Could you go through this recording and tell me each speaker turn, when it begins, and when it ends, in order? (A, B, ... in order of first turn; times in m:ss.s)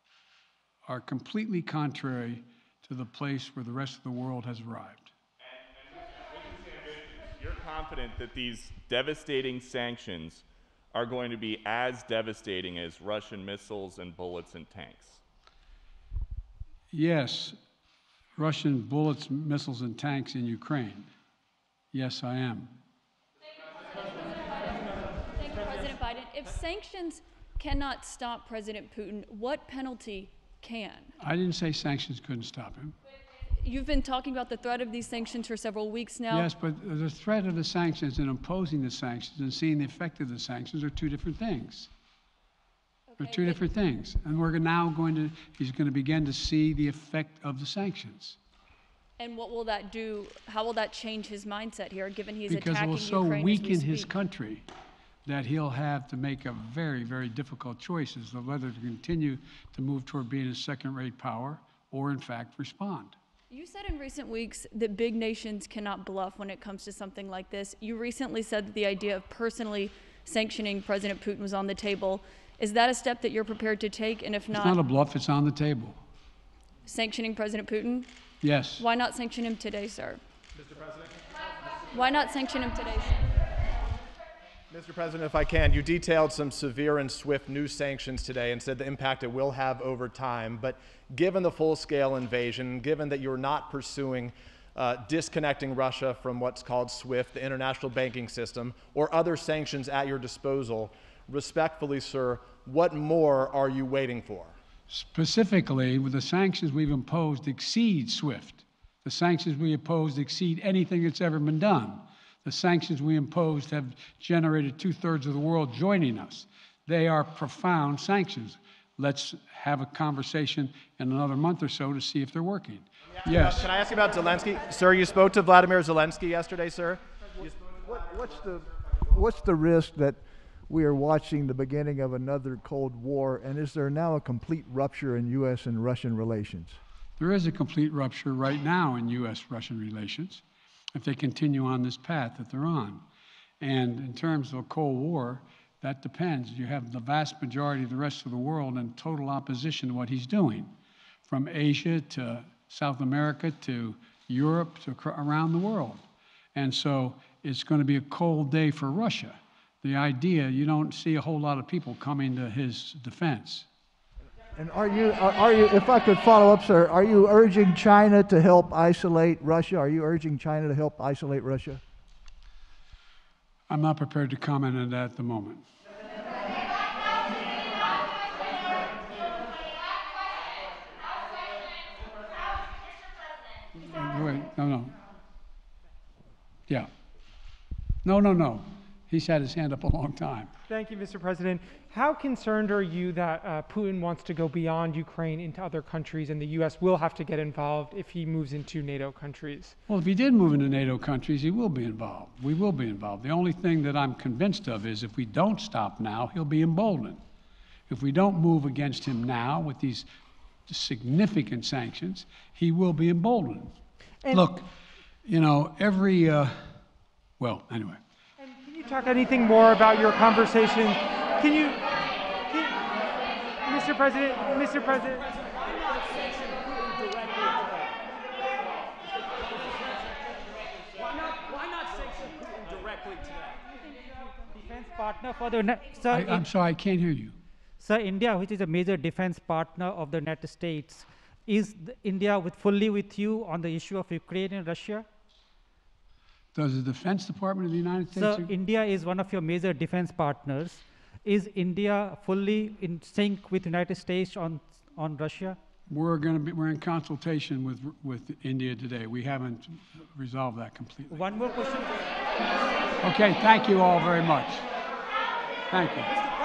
0:00.9-0:05.1 A
0:05.4-0:15.2 B
0:16.9-0:17.6 A
0:18.4-0:21.1 A
0:21.9-0:22.8 A
0:24.4-0:24.8 C
0:25.3-0:31.1 C
0:31.2-0:33.0 A
0:33.6-0:36.5 C
0:36.3-0:41.9 A
0:43.1-0:43.6 C
0:43.2-0:48.4 A
0:49.2-0:54.1 C
0:52.5-0:54.7 A
0:55.3-1:03.2 A
1:03.5-1:14.8 C
1:14.5-1:16.0 A
1:16.9-1:18.1 C
1:18.4-1:18.8 A
1:18.8-1:20.2 C
1:21.9-1:23.3 C
1:24.7-1:44.6 D
1:44.9-2:03.7 A
2:03.2-2:07.8 D
2:07.8-2:16.8 E
2:17.2-2:20.4 A
2:21.0-2:23.0 A
2:23.6-2:30.7 A
2:31.3-2:36.0 A
2:36.6-2:43.7 A
2:44.6-2:51.8 E
2:53.7-2:55.6 A
3:03.8-3:05.0 A
3:08.0-3:10.5 A
3:10.7-3:19.8 F
3:19.9-3:27.2 A
3:27.9-3:30.1 A
3:30.7-3:33.8 A
3:34.3-3:34.7 A
3:35.2-3:36.8 A
3:37.4-3:38.0 A
3:38.4-3:41.9 F
3:42.5-3:42.8 F
3:43.6-3:45.6 F
3:54.5-3:56.4 G
3:56.1-3:57.4 A
3:57.8-4:05.1 G
4:06.6-4:08.5 A
4:08.1-4:15.6 G
4:15.9-4:21.3 A
4:21.1-4:22.0 G
4:23.0-4:24.7 A
4:25.7-4:26.2 A